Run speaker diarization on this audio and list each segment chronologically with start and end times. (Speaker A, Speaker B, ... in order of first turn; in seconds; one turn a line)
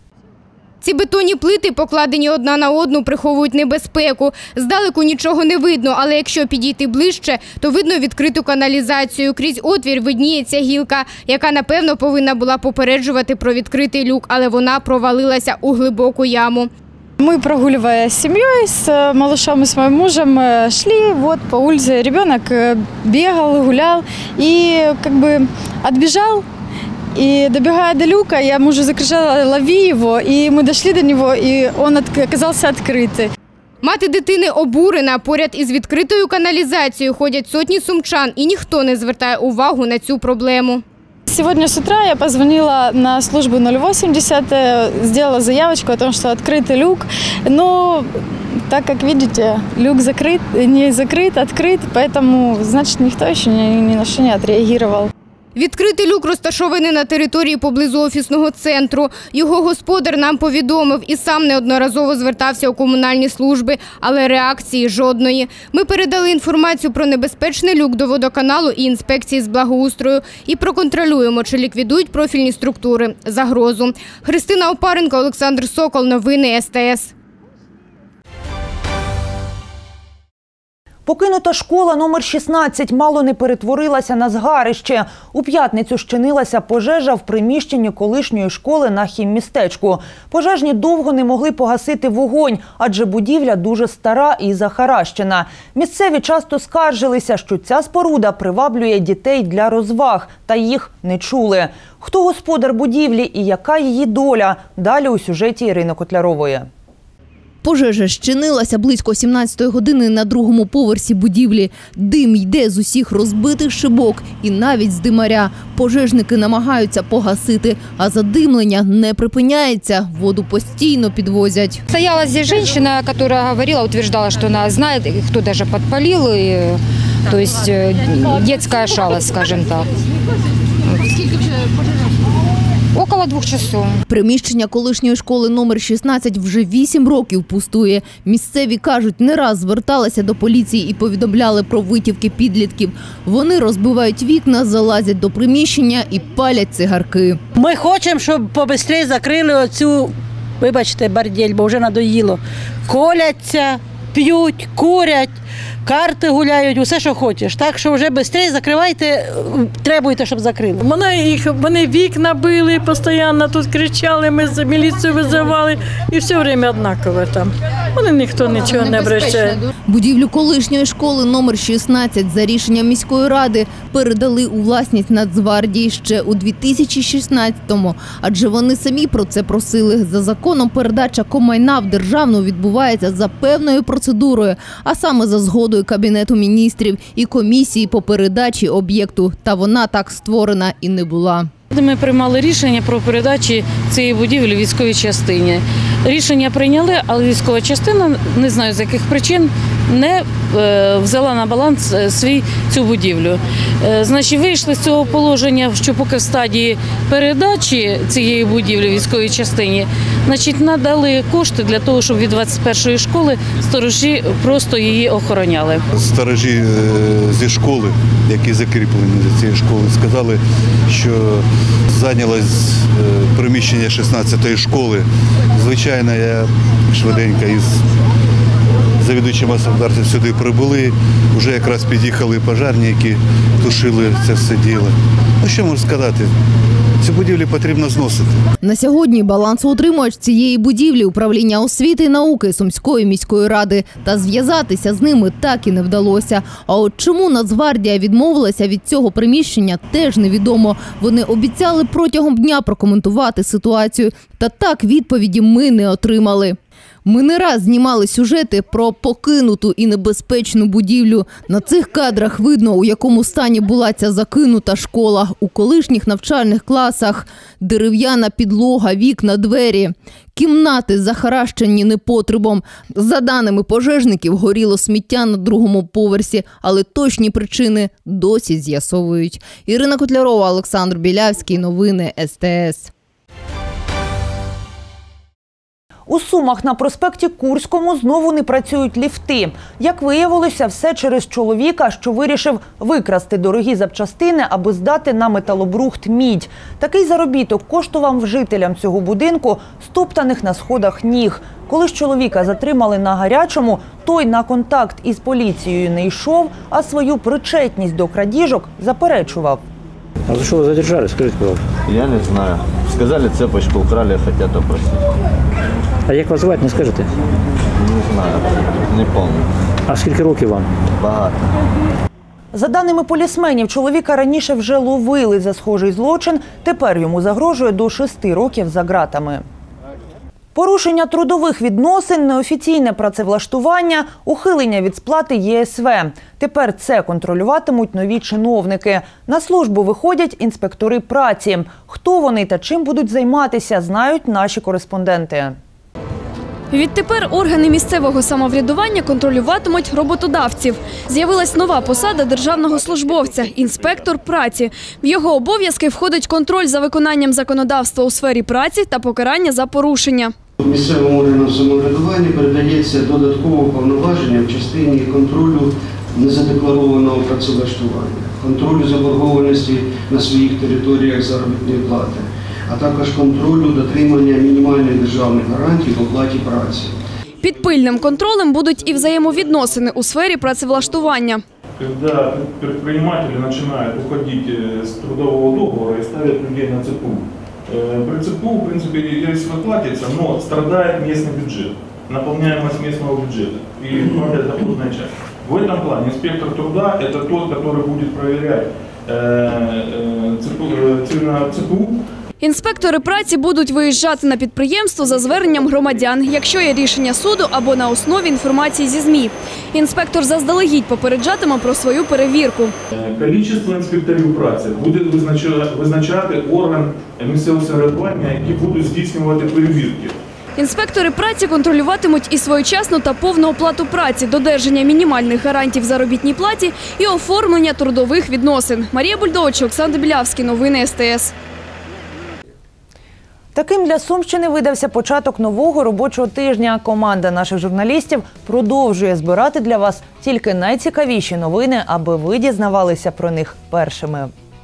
Speaker A: 0.8-16.7
Speaker B: 17.2-26.4
Speaker B: 27.1-33.3
Speaker A: 33.8-40.8
Speaker B: 41.3-48.1
Speaker B: 48.7-55.1
Speaker A: 55.5-77.1
Speaker C: 81.0-106.7
Speaker D: 107.6-121.8
Speaker A: 121.9-129.9
Speaker A: 132.9-134.0
Speaker D: 134.1-147.4
Speaker E: 147.6-150.1
Speaker E: 150.6-155.3
Speaker E: 155.8-160.8
Speaker F: 160.8-169.6
Speaker D: 168.7-191.5
Speaker F: 191.7-215.8
Speaker G: 215.9-227.8
Speaker G: 229.0-236.3
Speaker G: 237.0-238.4
Speaker D: 238.6-282.9
Speaker C: 286.1-309.6
Speaker H: 310.3-311.6
Speaker I: 311.9-314.9
Speaker I: 317.8-319.5
Speaker H: 319.9-320.6
Speaker I: 321.0-321.3
Speaker C: 322.5-329.4
Speaker C: 330.5-345.6
Speaker J: 346.7-360.3
Speaker K: 360.6-376.9
Speaker J: 377.4-381.4
Speaker L: 381.8-401.9
Speaker J: 402.4-412.7
Speaker L: 412.9-420.1
Speaker J: 420.6-431.3
Speaker C: 433.5-444.3